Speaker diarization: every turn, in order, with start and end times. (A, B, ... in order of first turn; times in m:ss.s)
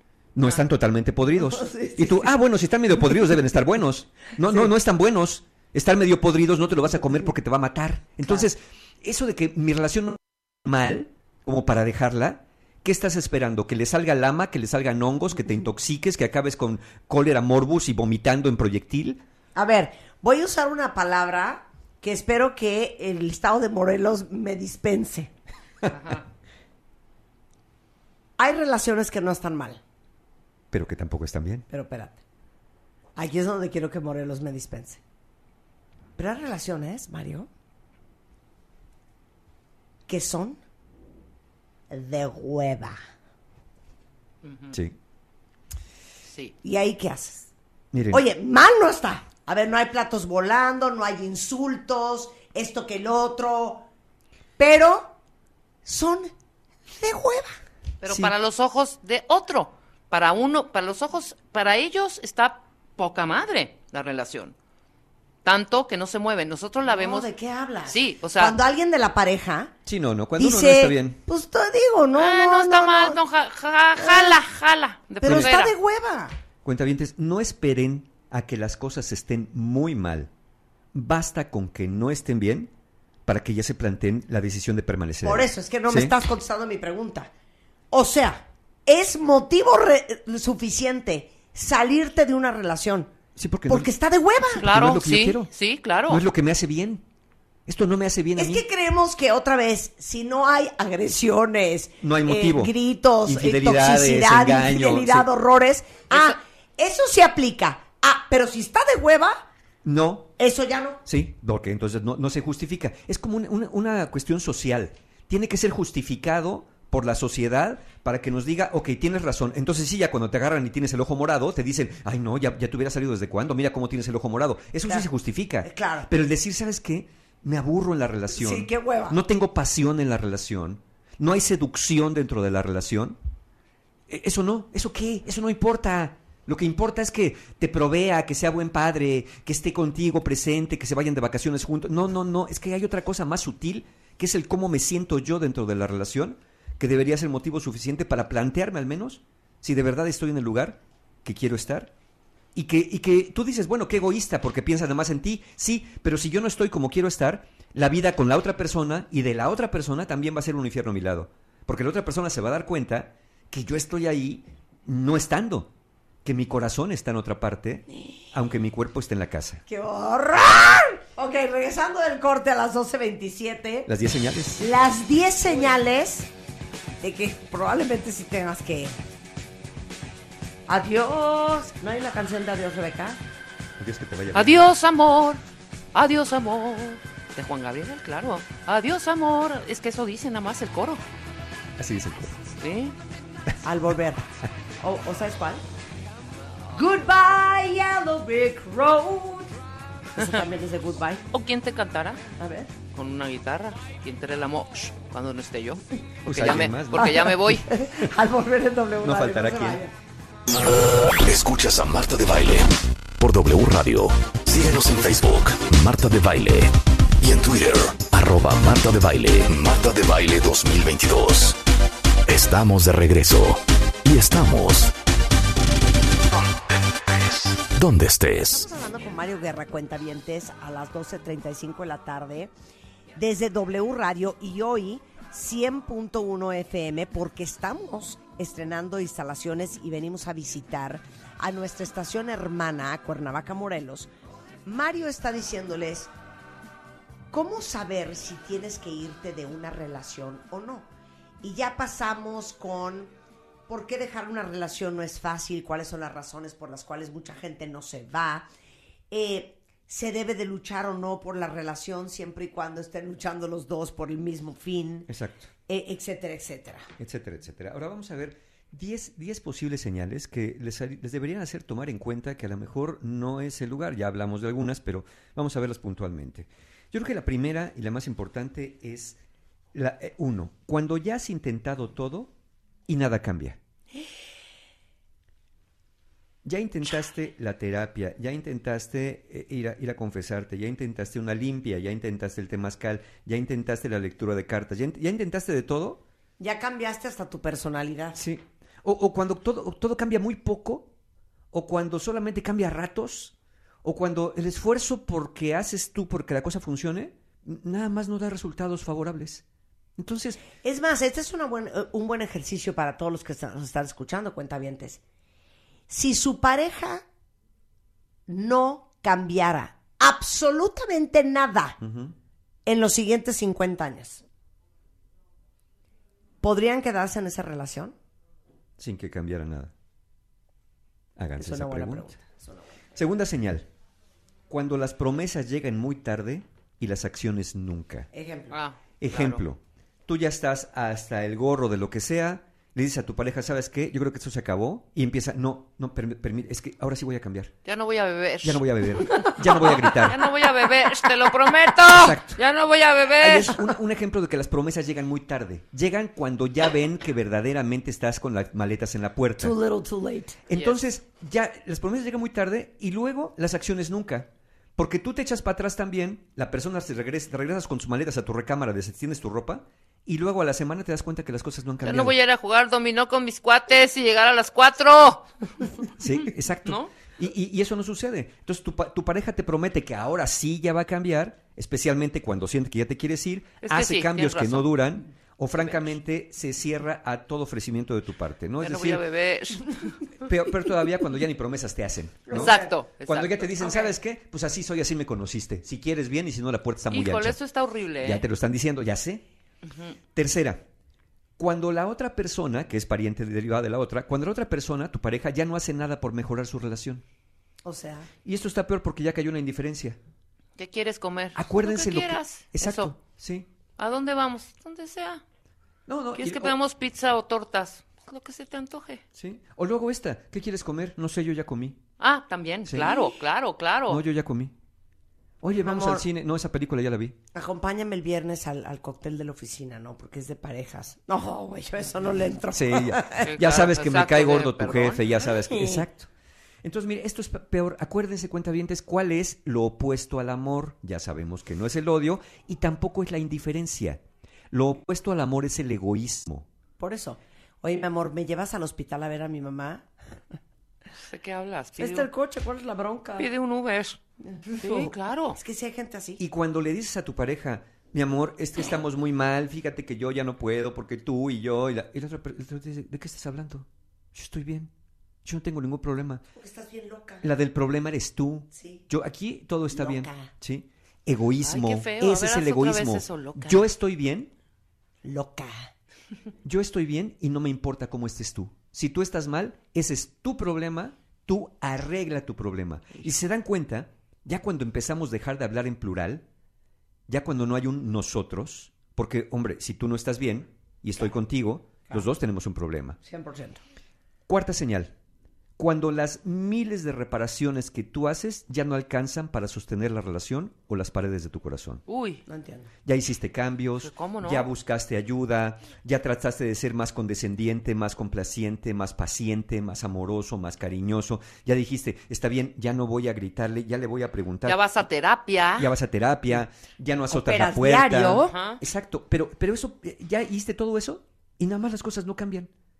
0:00.3-0:19.2 A
0:01.4-0:02.3 B
0:19.5-0:25.3 B
0:25.9-0:26.2 C
0:28.4-0:29.8 B
0:30.7-0:31.6 A
0:31.7-0:32.2 B
0:33.2-0:35.0 B
0:36.2-0:37.5 B
0:40.1-0:40.6 B
0:41.9-0:43.0 B
0:44.4-0:44.8 C
0:46.2-0:46.5 C
0:46.6-0:47.5 B
0:47.9-0:48.2 A
0:48.1-0:53.8 B
0:54.6-0:55.2 B
0:55.8-0:56.3 B
0:56.9-0:57.6 B
0:58.0-1:04.5 C
0:58.1-0:58.3 A
1:05.4-1:07.3 C
1:06.8-1:09.7 B
1:07.9-1:08.5 C
1:09.8-1:11.2 A
1:10.4-1:13.2 B
1:12.1-1:15.7 C
1:14.0-1:14.4 B
1:15.2-1:16.4 B
1:15.2-1:15.5 A
1:16.6-1:20.3 A
1:20.9-1:22.7 A
1:23.2-1:26.2 A
1:25.2-1:27.3 B
1:27.9-1:33.1 B
1:33.4-1:33.9 A
1:33.7-1:34.7 B
1:34.5-1:36.2 C
1:34.6-1:35.5 A
1:36.1-1:37.0 A
1:37.7-1:38.6 A
1:38.4-1:49.4 B
1:42.0-1:42.7 A
1:43.2-1:45.3 A
1:49.8-1:50.3 A
1:50.4-1:51.0 B
1:51.0-2:13.2 A
2:05.6-2:06.1 B
2:08.3-2:09.2 B
2:14.1-2:31.9 A
2:32.5-2:45.7 A
2:46.2-2:49.6 A
2:49.7-2:53.9 B
2:53.9-2:54.7 A
2:54.6-2:56.3 B
2:57.0-2:59.0 B
3:00.7-3:03.2 B
3:03.8-3:04.6 A
3:04.3-3:05.4 C
3:05.9-3:11.0 C
3:11.8-3:12.3 A
3:12.6-3:12.9 C
3:13.6-3:14.3 B
3:14.8-3:15.6 B
3:16.7-3:19.5 B
3:20.2-3:21.2 B
3:21.3-3:22.2 C
3:22.4-3:22.7 B
3:22.9-3:27.7 C
3:26.2-3:27.3 A
3:27.0-3:29.9 B
3:29.0-3:29.8 A
3:30.5-3:41.6 D
3:42.3-3:44.9 D
3:47.2-3:48.7 D
3:48.4-3:52.5 B
3:53.2-4:04.1 B
4:04.6-4:06.1 B
4:07.3-4:10.9 B
4:11.4-4:13.1 B
4:13.7-4:18.5 B
4:19.1-4:25.1 B
4:25.1-4:25.5 A
4:25.7-4:26.9 B
4:27.0-4:39.2 A
4:39.7-4:42.3 A
4:42.9-4:43.6 A
4:46.4-4:56.0 A
4:56.4-4:58.2 B
4:58.1-5:00.9 A
5:01.5-5:03.3 A
5:03.8-5:09.4 A
5:10.0-5:10.4 A
5:10.6-5:15.0 B
5:15.9-5:17.0 B
5:18.3-5:21.8 B
5:21.8-5:22.1 A
5:22.6-5:24.2 B
5:26.4-5:27.9 B
5:28.8-5:29.7 A
5:31.2-5:32.1 A
5:31.4-5:32.7 B
5:32.9-5:33.7 A
5:34.5-5:38.1 A
5:38.1-5:38.5 B
5:38.5-5:39.4 C
5:39.0-5:47.5 A
5:47.6-5:48.6 C
5:48.4-5:50.3 A
5:49.6-5:53.6 C
5:51.8-5:52.4 A
5:53.2-5:59.6 A
5:59.4-6:00.4 B
6:00.5-6:12.1 A
6:00.5-6:00.8 C
6:11.8-6:15.3 C
6:16.0-6:29.0 A
6:16.6-6:16.9 C
6:23.6-6:24.7 C
6:25.6-6:25.8 C
6:28.6-6:30.0 C
6:30.2-6:37.4 A
6:32.3-6:32.7 B
6:32.3-6:33.9 C
6:36.9-6:38.2 C
6:38.0-6:39.2 A
6:39.6-6:40.0 C
6:40.1-6:40.6 A
6:41.4-6:47.0 A
6:47.6-6:48.1 B
6:48.2-6:50.0 A
6:50.6-6:52.9 C
6:51.3-6:53.5 A
6:53.8-6:55.2 C
6:55.8-6:56.6 A
6:56.2-6:59.0 C
6:59.1-7:01.8 A
7:02.0-7:04.0 C
7:02.6-7:03.0 A
7:03.9-7:04.5 A
7:05.4-7:07.2 A
7:05.6-7:06.0 B
7:07.3-7:13.3 B
7:12.5-7:16.1 A
7:13.2-7:15.0 C
7:15.5-7:15.8 B
7:16.6-7:26.4 A
7:26.8-7:29.9 B
7:31.0-7:32.1 C
7:31.8-7:33.3 B
7:33.2-7:34.0 C
7:34.2-7:36.2 B
7:34.6-7:35.4 C
7:36.2-7:44.7 A
7:45.2-7:46.2 A
7:46.4-7:47.2 B
7:47.2-7:54.3 A
7:48.5-7:48.8 B
7:49.7-7:50.3 B
7:51.4-7:53.6 C
7:55.0-7:55.7 B
7:56.4-8:06.2 A
8:07.1-8:13.0 A
8:13.0-8:13.6 B
8:14.3-8:14.9 A
8:15.6-8:21.8 A
8:21.9-8:22.2 C
8:22.2-8:22.7 B
8:22.8-8:34.6 A
8:23.8-8:24.4 C
8:34.4-8:35.7 C
8:35.6-8:42.5 A
8:37.1-8:38.3 B
8:38.0-8:38.6 C